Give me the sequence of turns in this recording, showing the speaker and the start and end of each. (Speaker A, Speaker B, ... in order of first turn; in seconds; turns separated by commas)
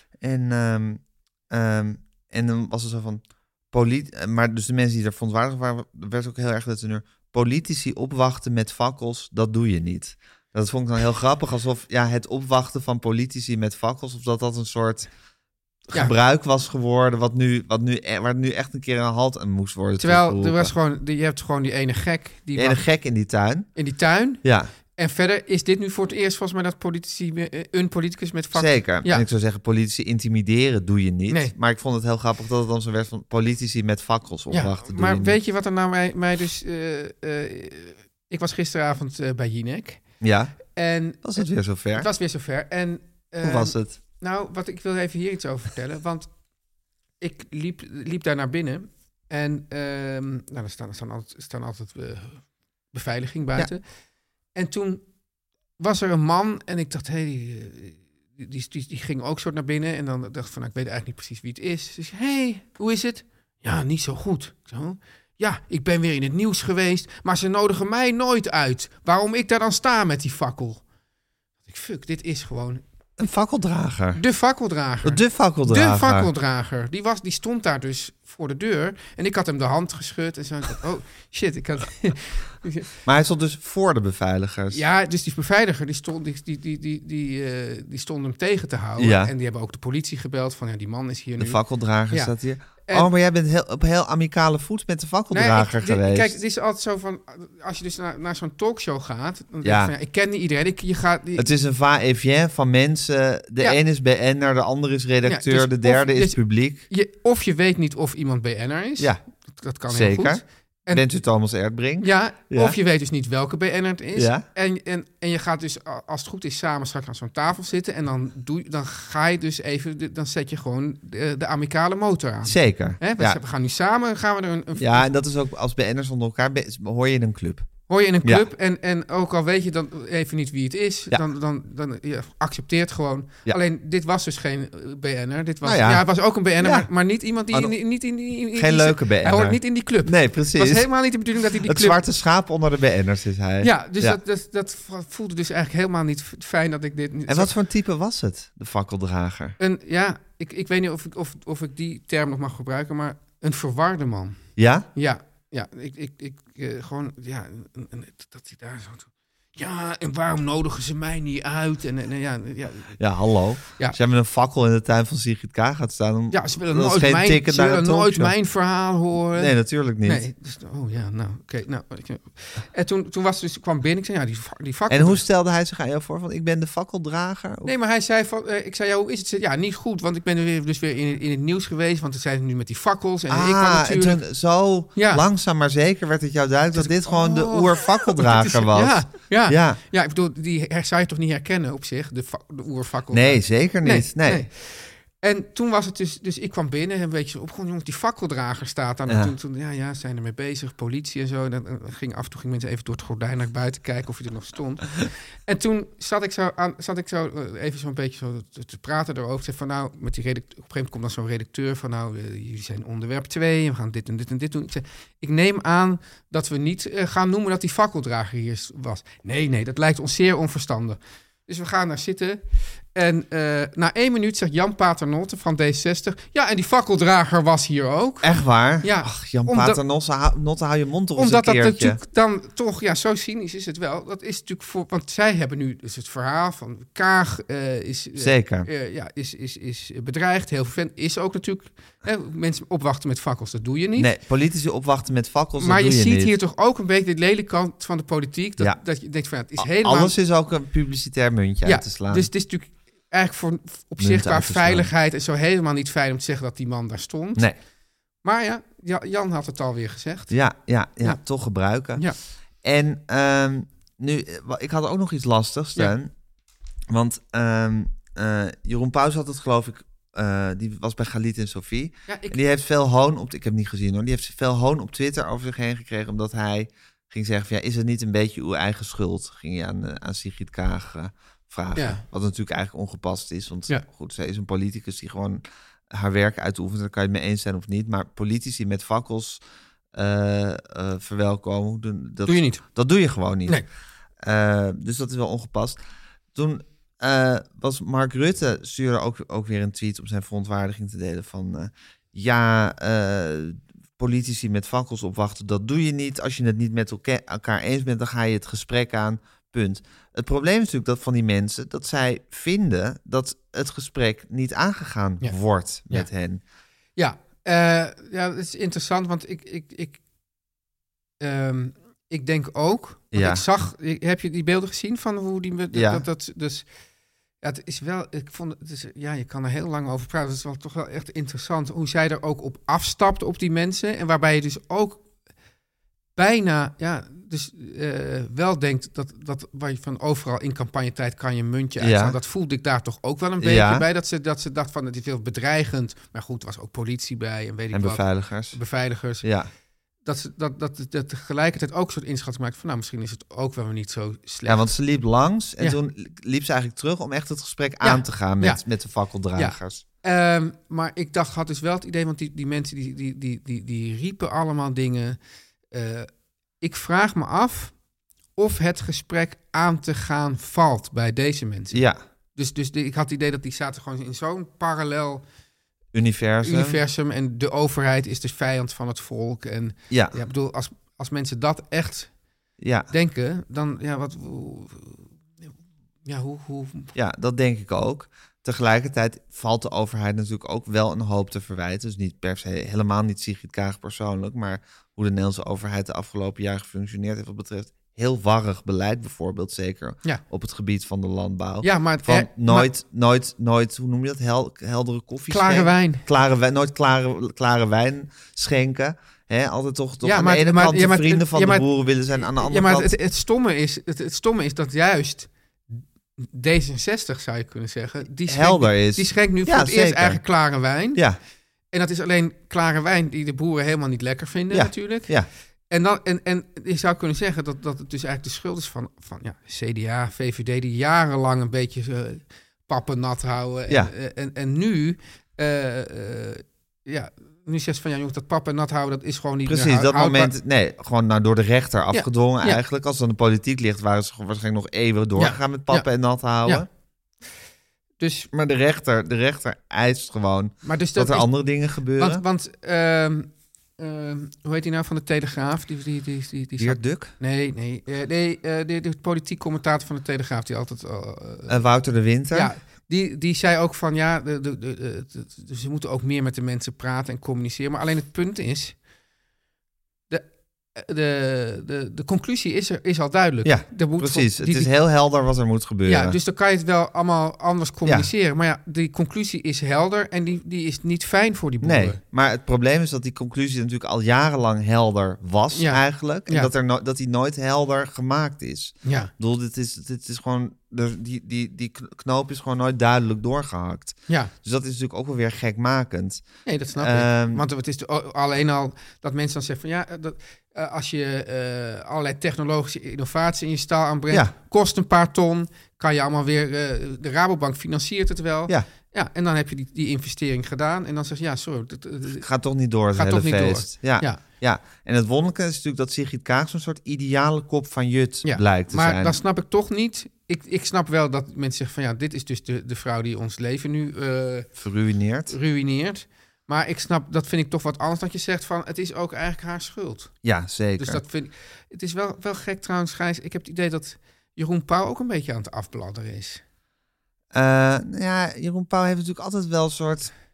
Speaker A: 0.2-15.1, Speaker A: 15.9-20.7, Speaker B: 20.0-22.8, Speaker A: 22.6-23.7, Speaker B: 23.8-24.4, Speaker A: 24.4-24.7, Speaker B: 24.9-29.3, Speaker A: 28.5-35.4, Speaker B: 31.3-31.5, Speaker B: 34.5-40.0, Speaker A: 40.2-40.6, Speaker B: 40.8-41.4, Speaker A: 41.2-42.1, Speaker B: 41.9-46.3, Speaker A: 43.4-44.0, Speaker B: 47.2-53.8, Speaker B: 54.5-55.0, Speaker B: 55.8-70.8, Speaker B: 71.7-72.8, Speaker A: 73.2-74.2, Speaker B: 74.2-82.9, Speaker A: 75.0-76.3, Speaker A: 83.1-84.8, Speaker B: 84.7-92.3, Speaker A: 89.0-89.3, Speaker A: 91.4-96.4, Speaker B: 95.3-101.5, Speaker A: 99.6-99.9, Speaker A: 101.4-106.8, Speaker B: 105.2-111.0, Speaker A: 109.9-112.8, Speaker B: 112.0-125.1, Speaker A: 114.2-114.5, Speaker A: 122.4-123.4, Speaker A: 124.8-127.7, Speaker B: 127.9-142.0, Speaker A: 135.6-136.9, Speaker A: 137.5-137.8, Speaker A: 138.5-141.1, Speaker A: 141.6-144.2, Speaker B: 143.6-147.5, Speaker A: 147.3-149.6, Speaker B: 149.6-154.4, Speaker A: 154.6-154.9, Speaker B: 154.9-163.0, Speaker A: 163.0-168.4, Speaker B: 166.3-175.2, Speaker A: 169.3-170.2, Speaker A: 174.9-177.7, Speaker B: 177.7-184.2, Speaker A: 183.3-189.8, Speaker B: 184.9-185.2, Speaker B: 186.7-222.4, Speaker A: 193.1-194.4, Speaker A: 199.1-199.3, Speaker B: 222.9-228.3, Speaker A: 228.2-232.0, Speaker B: 228.8-229.8, Speaker B: 231.2-244.1, Speaker A: 238.2-238.7, Speaker A: 244.0-246.3, Speaker B: 245.6-250.2, Speaker A: 249.6-252.3, Speaker B: 251.6-257.5, Speaker A: 254.0-254.9, Speaker B: 258.2-260.4, Speaker A: 260.3-262.1, Speaker A: 262.6-266.1, Speaker A: 266.9-289.4, Speaker B: 272.1-272.4, Speaker B: 281.8-282.0, Speaker A: 289.9-293.6, Speaker B: 292.3-292.6, Speaker A: 294.2-295.8, Speaker A: 296.4-316.4, Speaker B: 317.0-320.0, Speaker B: 321.2-326.7, Speaker A: 323.1-323.4, Speaker A: 325.7-326.1, Speaker B: 327.4-335.0, Speaker B: 336.2-349.3, Speaker A: 341.8-342.2, Speaker A: 343.4-343.9, Speaker A: 347.7-348.6, Speaker A: 349.2-349.5, Speaker B: 350.1-354.7, Speaker A: 354.4-359.8, Speaker B: 357.8-358.6, Speaker B: 359.3-365.2, Speaker B: 365.7-366.1, Speaker B: 366.6-367.8, Speaker B: 368.4-371.8, Speaker A: 371.7-372.0, Speaker B: 372.4-375.2, Speaker A: 375.9-376.8, Speaker B: 376.4-382.1, Speaker A: 379.9-380.2, Speaker A: 382.6-382.9, Speaker B: 382.9-385.5, Speaker B: 386.1-386.9, Speaker A: 386.9-412.9, Speaker B: 401.6-402.7, Speaker B: 405.3-406.1, Speaker B: 410.0-411.7, Speaker B: 412.3-421.0, Speaker A: 418.3-420.2, Speaker B: 421.7-425.1, Speaker A: 424.5-425.3, Speaker B: 425.7-440.3, Speaker A: 439.5-446.7, Speaker B: 441.9-442.6, Speaker B: 445.2-445.9, Speaker B: 448.0-448.3, Speaker A: 448.3-452.2, Speaker B: 450.6-451.3, Speaker B: 452.0-461.6, Speaker A: 456.6-457.1, Speaker A: 461.5-462.5, Speaker B: 462.3-468.8, Speaker B: 470.1-474.7, Speaker A: 473.4-476.2, Speaker B: 475.9-482.0, Speaker A: 477.9-478.1, Speaker A: 481.6-496.2, Speaker B: 485.5-486.5, Speaker B: 488.9-489.1, Speaker B: 496.5-512.3, Speaker A: 496.8-497.4, Speaker A: 512.2-519.2, Speaker B: 512.9-514.2, Speaker B: 518.2-524.5, Speaker A: 524.6-525.4, Speaker B: 525.3-530.1, Speaker A: 530.2-531.0, Speaker B: 530.8-536.4, Speaker A: 537.3-540.1